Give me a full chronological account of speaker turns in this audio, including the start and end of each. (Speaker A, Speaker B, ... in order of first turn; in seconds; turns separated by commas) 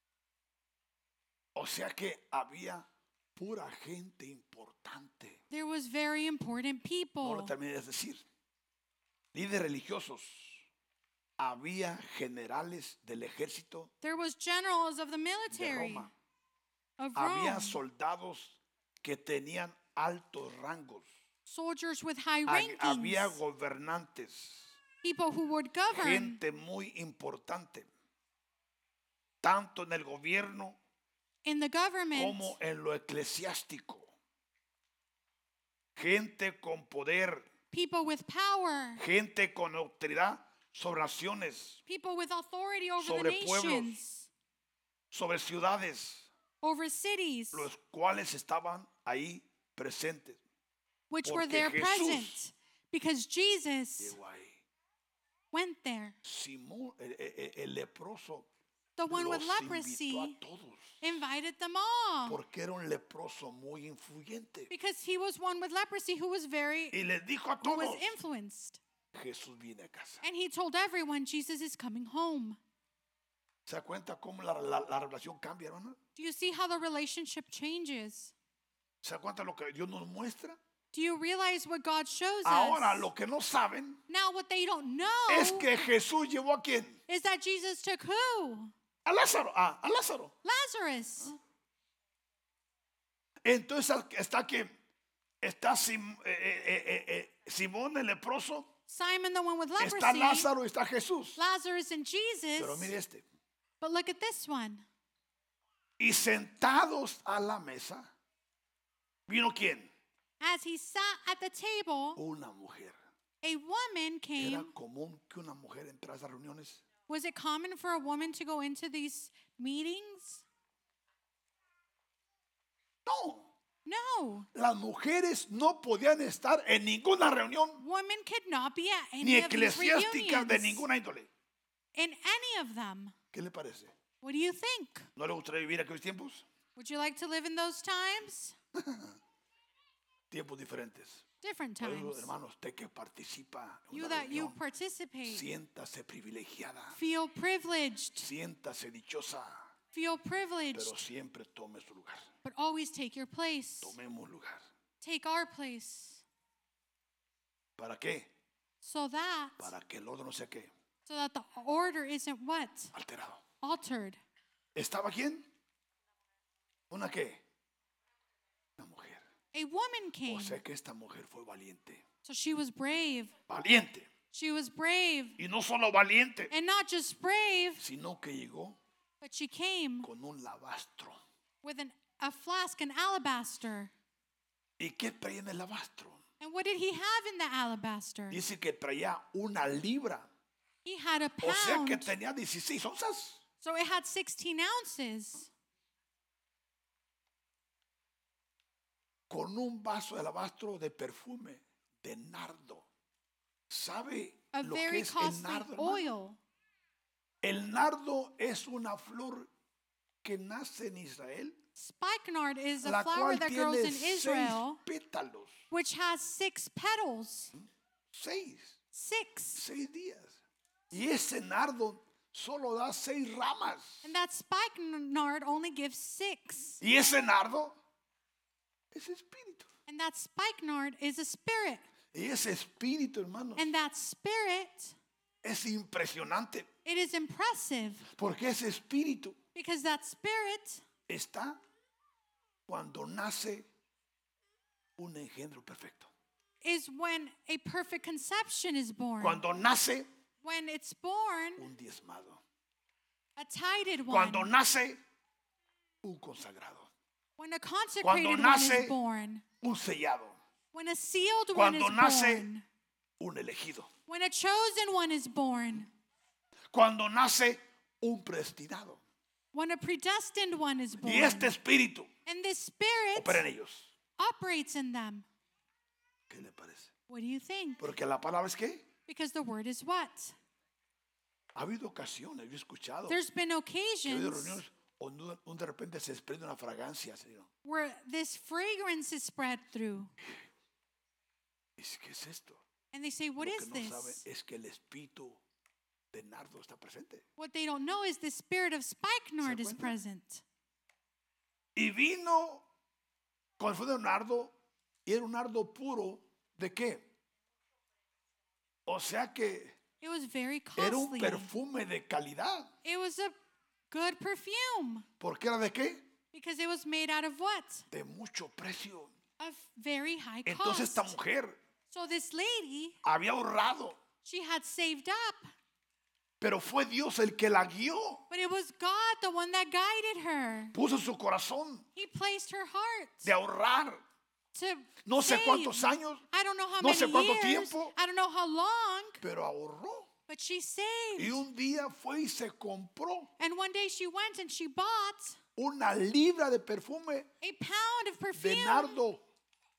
Speaker A: 1.5-5.4, Speaker B: 5.5-7.5, Speaker A: 7.2-8.2, Speaker A: 9.3-10.7, Speaker A: 11.4-13.9, Speaker B: 14.0-16.1, Speaker A: 15.5-16.1, Speaker B: 17.0-17.8, Speaker A: 17.1-21.1, Speaker B: 21.4-23.4, Speaker A: 22.4-24.8, Speaker B: 25.0-26.4, Speaker A: 25.9-27.9, Speaker A: 29.4-30.8, Speaker B: 31.4-32.5, Speaker A: 32.1-34.1, Speaker A: 35.9-37.5, Speaker B: 37.7-39.0, Speaker A: 39.0-41.8, Speaker B: 41.9-44.3, Speaker A: 43.0-44.0, Speaker A: 45.1-46.3, Speaker B: 46.6-47.7, Speaker A: 47.5-50.4, Speaker B: 51.1-54.2, Speaker A: 51.2-52.4, Speaker A: 54.0-54.6, Speaker B: 55.5-56.2, Speaker A: 56.2-58.5, Speaker B: 59.0-60.4, Speaker A: 59.1-61.2, Speaker B: 61.0-62.4, Speaker A: 62.2-64.7, Speaker B: 64.7-67.0, Speaker A: 66.9-68.1, Speaker B: 67.6-68.8, Speaker A: 69.1-70.2, Speaker B: 70.2-72.6, Speaker A: 73.7-76.0, Speaker B: 76.2-78.3, Speaker A: 79.0-80.6, Speaker B: 80.9-83.1, Speaker A: 82.4-84.0, Speaker B: 84.1-85.7, Speaker A: 85.3-87.0, Speaker B: 87.1-88.7, Speaker A: 89.0-90.3, Speaker B: 90.4-91.4, Speaker A: 93.4-94.7, Speaker A: 95.4-98.7, Speaker B: 98.9-100.5, Speaker A: 99.8-101.4, Speaker B: 101.4-102.9, Speaker A: 102.6-103.2, Speaker B: 103.8-104.8, Speaker A: 106.0-108.1, Speaker A: 109.3-109.9, Speaker B: 110.4-112.2, Speaker A: 112.2-113.0, Speaker B: 113.4-114.7, Speaker A: 114.4-116.8, Speaker B: 117.1-120.4, Speaker A: 123.0-123.5, Speaker B: 123.8-124.5, Speaker A: 124.5-127.8, Speaker B: 127.8-130.8, Speaker A: 129.2-131.3, Speaker B: 131.9-133.1, Speaker A: 133.3-133.9, Speaker B: 134.2-135.1, Speaker A: 135.2-136.4, Speaker B: 136.8-138.6, Speaker A: 138.7-139.2, Speaker A: 140.3-141.2, Speaker B: 141.4-142.3, Speaker A: 141.8-144.6, Speaker B: 143.9-145.5, Speaker A: 145.3-147.0, Speaker B: 146.9-148.3, Speaker A: 148.2-149.7, Speaker B: 149.9-150.9, Speaker A: 150.7-152.3, Speaker B: 152.4-153.9, Speaker A: 153.8-154.7, Speaker B: 155.0-156.2, Speaker A: 157.8-158.3, Speaker B: 158.8-159.7, Speaker A: 159.6-160.7, Speaker B: 161.1-162.9, Speaker A: 162.9-163.4, Speaker B: 163.6-164.2, Speaker A: 164.7-165.5, Speaker A: 166.9-167.4, Speaker A: 168.8-169.2, Speaker B: 169.5-170.6, Speaker A: 170.2-172.0, Speaker B: 172.2-173.3, Speaker A: 173.5-174.1, Speaker B: 174.3-175.4, Speaker A: 175.4-176.5, Speaker B: 176.5-177.8, Speaker A: 177.8-178.8, Speaker B: 179.2-180.1, Speaker A: 180.0-181.2, Speaker B: 181.6-183.9, Speaker A: 184.8-186.2, Speaker B: 186.4-188.4, Speaker A: 188.3-190.3, Speaker B: 190.8-192.1, Speaker A: 191.4-193.4, Speaker B: 193.6-195.5, Speaker A: 199.3-202.9, Speaker A: 203.7-206.1, Speaker B: 204.5-206.4, Speaker A: 207.4-209.5, Speaker A: 210.2-211.6, Speaker B: 211.8-214.8, Speaker A: 212.8-215.6, Speaker B: 215.7-217.5, Speaker A: 217.5-218.8, Speaker B: 218.9-219.6, Speaker A: 219.5-220.4, Speaker A: 220.9-224.1, Speaker B: 224.0-226.8, Speaker A: 226.8-227.8, Speaker A: 228.9-229.7, Speaker B: 229.9-231.8, Speaker A: 232.1-233.7, Speaker B: 233.6-234.9, Speaker A: 235.4-236.7, Speaker B: 236.8-238.1, Speaker A: 238.1-239.4, Speaker B: 239.5-240.8, Speaker A: 241.1-241.6, Speaker A: 242.7-243.7, Speaker A: 245.0-246.1, Speaker B: 246.6-249.4, Speaker A: 249.2-250.1, Speaker B: 250.4-251.7, Speaker A: 251.6-252.4, Speaker B: 253.4-254.5, Speaker A: 254.1-255.0, Speaker A: 256.0-256.9, Speaker B: 257.4-259.4, Speaker A: 258.0-259.0, Speaker A: 259.6-260.4, Speaker B: 260.7-262.6, Speaker A: 261.5-262.5, Speaker A: 263.2-263.9, Speaker B: 264.1-265.9, Speaker A: 266.7-269.0, Speaker B: 269.5-271.5, Speaker A: 271.0-272.1, Speaker B: 272.2-273.4, Speaker A: 273.1-273.9, Speaker B: 274.2-275.3, Speaker A: 276.3-276.9, Speaker B: 277.1-277.9, Speaker A: 277.8-278.9, Speaker B: 279.1-280.4, Speaker A: 281.5-283.2, Speaker B: 283.1-284.6, Speaker A: 284.1-287.5, Speaker B: 287.6-290.1, Speaker A: 290.2-290.5, Speaker A: 291.8-292.6, Speaker B: 292.9-294.2, Speaker A: 293.4-295.4, Speaker A: 296.1-297.2, Speaker B: 297.4-300.4, Speaker A: 299.4-300.0, Speaker A: 301.7-302.6, Speaker A: 303.6-304.5, Speaker A: 305.1-307.1, Speaker A: 308.9-309.8, Speaker B: 310.0-311.5, Speaker A: 310.8-312.7, Speaker B: 312.8-313.3, Speaker B: 313.9-315.1, Speaker A: 315.2-316.1, Speaker B: 316.3-317.9, Speaker A: 317.9-319.1, Speaker B: 319.4-321.1, Speaker A: 320.4-321.6, Speaker B: 321.9-323.0, Speaker A: 323.0-324.0, Speaker B: 324.2-325.5, Speaker A: 326.4-328.2, Speaker B: 328.3-330.8, Speaker A: 330.7-331.9, Speaker B: 331.9-333.3, Speaker A: 333.2-334.0, Speaker B: 334.5-339.2, Speaker A: 335.0-336.2, Speaker A: 336.8-337.9, Speaker A: 339.2-340.1, Speaker B: 340.3-341.4, Speaker A: 341.2-343.3, Speaker B: 343.4-345.4, Speaker A: 345.6-347.3, Speaker B: 347.4-349.0, Speaker A: 348.4-349.2